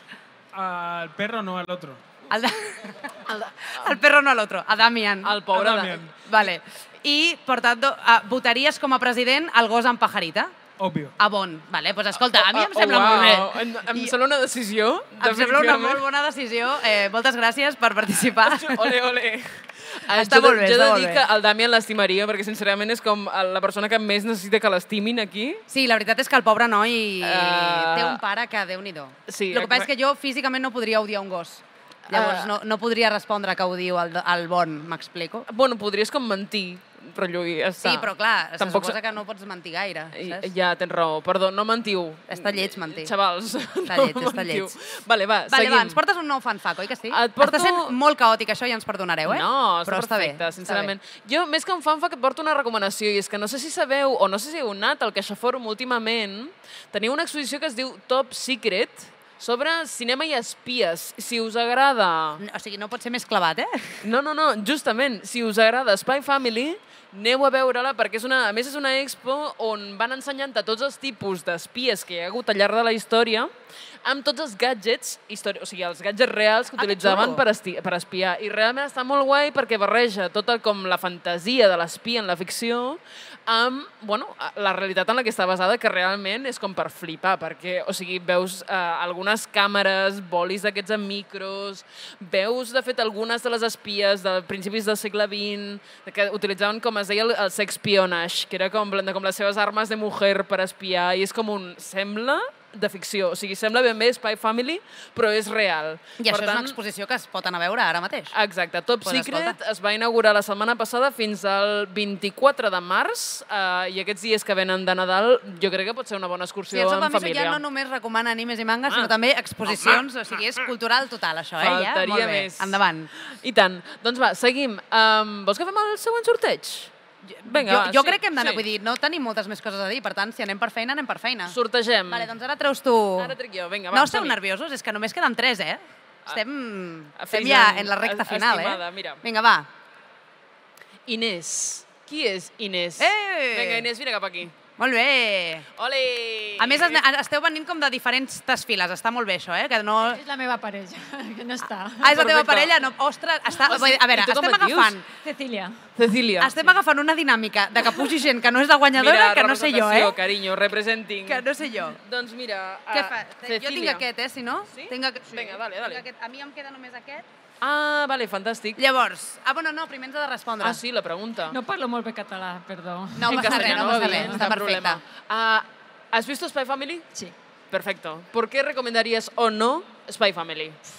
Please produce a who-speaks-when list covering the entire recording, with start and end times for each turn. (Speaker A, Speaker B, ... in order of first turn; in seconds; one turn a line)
Speaker A: 0.5-2.0
Speaker B: 2.3-5.4
Speaker C: 3.3-4.0
Speaker C: 5.2-6.0
Speaker A: 5.5-6.2
Speaker B: 6.1-10.5
Speaker A: 10.8-11.2
Speaker B: 11.2-14.1
Speaker C: 12.2-16.0
Speaker B: 15.2-19.0
Speaker C: 18.4-25.6
Speaker B: 20.1-21.2
Speaker B: 25.7-35.5
Speaker C: 27.2-28.2
Speaker C: 29.3-29.9
Speaker C: 32.1-32.5
Speaker C: 35.5-39.0
Speaker B: 37.8-40.5
Speaker C: 40.1-46.0
Speaker B: 42.3-43.1
Speaker B: 43.9-44.7
Speaker B: 45.5-50.9
Speaker C: 47.1-48.0
Speaker C: 49.3-62.4
Speaker B: 62.4-64.0
Speaker C: 64.0-73.5
Speaker C: 74.0-106.8
Speaker B: 76.8-77.4
Speaker B: 106.2-108.3
Speaker C: 108.3-117.6
Speaker B: 109.0-109.6
Speaker B: 116.7-123.1
Speaker C: 118.9-119.1
Speaker C: 119.7-120.0
Speaker C: 121.6-126.9
Speaker B: 127.2-131.6
Speaker C: 127.4-128.7
Speaker C: 131.5-132.3
Speaker B: 132.1-133.4
Speaker C: 133.2-134.4
Speaker B: 133.9-139.7
Speaker C: 137.2-139.2
Speaker C: 141.1-144.5
Speaker B: 143.0-143.9
Speaker B: 144.8-145.7
Speaker C: 145.8-147.0
Speaker B: 146.6-150.2
Speaker D: 150.0-152.3
Speaker B: 152.0-155.2
Speaker C: 152.1-152.7
Speaker C: 153.6-155.0
Speaker D: 155.1-155.8
Speaker C: 156.0-156.6
Speaker B: 156.4-160.2
Speaker C: 158.9-164.0
Speaker B: 161.3-162.0
Speaker B: 162.9-167.3
Speaker C: 164.7-166.0
Speaker C: 167.6-168.8
Speaker B: 168.8-170.8
Speaker C: 170.6-171.6
Speaker D: 171.5-174.5
Speaker B: 173.2-175.0
Speaker C: 173.2-177.1
Speaker C: 177.7-180.8